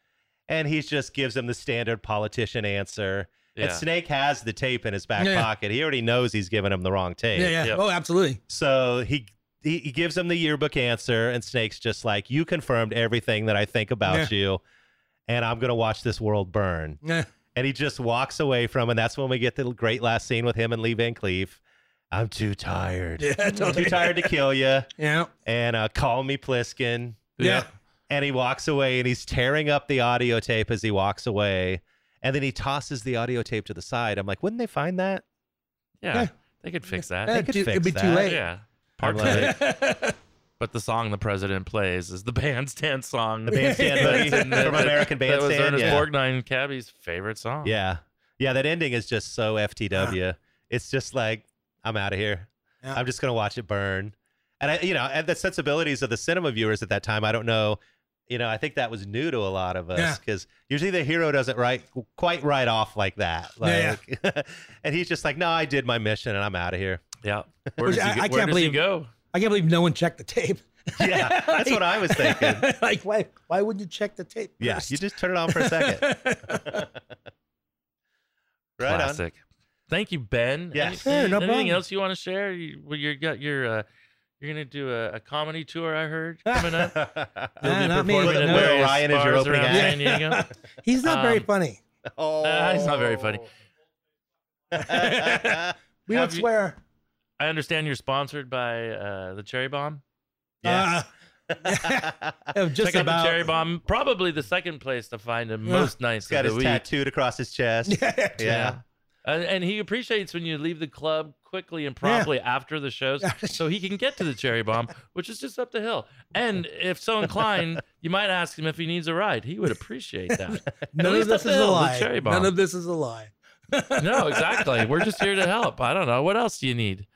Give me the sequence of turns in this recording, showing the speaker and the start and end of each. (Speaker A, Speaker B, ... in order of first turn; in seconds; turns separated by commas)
Speaker A: 0.5-7.6, Speaker B: 3.5-3.8, Speaker C: 5.2-5.5, Speaker C: 7.3-8.4, Speaker A: 8.5-14.6, Speaker C: 14.1-14.3, Speaker A: 15.3-17.0, Speaker A: 17.5-21.6, Speaker A: 22.1-24.9, Speaker C: 23.2-24.3, Speaker C: 25.0-25.3, Speaker A: 25.4-35.2, Speaker B: 27.4-27.6, Speaker C: 27.4-27.6, Speaker B: 36.0-37.4, Speaker C: 37.2-38.4, Speaker A: 37.3-38.3, Speaker B: 38.2-39.6, Speaker A: 39.0-39.6, Speaker C: 39.2-40.1, Speaker B: 40.6-47.7, Speaker A: 43.5-46.0, Speaker C: 43.5-45.0, Speaker C: 45.8-46.0, Speaker A: 47.6-67.0, Speaker C: 63.6-64.0, Speaker B: 67.2-69.1, Speaker C: 67.8-68.8, Speaker C: 69.3-76.8, Speaker A: 71.0-72.7, Speaker A: 74.6-76.9, Speaker A: 78.8-79.2, Speaker B: 78.8-83.9, Speaker A: 80.7-81.0, Speaker C: 81.0-81.8, Speaker B: 84.4-86.9, Speaker C: 86.5-86.9, Speaker A: 86.9-90.0, Speaker C: 87.6-88.8, Speaker B: 87.6-90.5, Speaker C: 89.7-91.8, Speaker B: 91.0-91.5, Speaker A: 92.1-93.4, Speaker B: 92.4-93.5, Speaker A: 94.7-95.7, Speaker C: 94.7-96.8, Speaker B: 96.1-96.5, Speaker B: 97.4-100.0, Speaker A: 100.6-101.0, Speaker C: 100.6-101.1, Speaker A: 101.5-102.5, Speaker C: 101.6-103.5, Speaker B: 102.8-106.8, Speaker C: 105.7-105.9, Speaker A: 106.3-108.8, Speaker C: 107.9-108.5, Speaker B: 108.4-122.5, Speaker C: 112.0-112.3, Speaker C: 113.2-113.6, Speaker C: 120.9-125.3, Speaker B: 124.0-127.1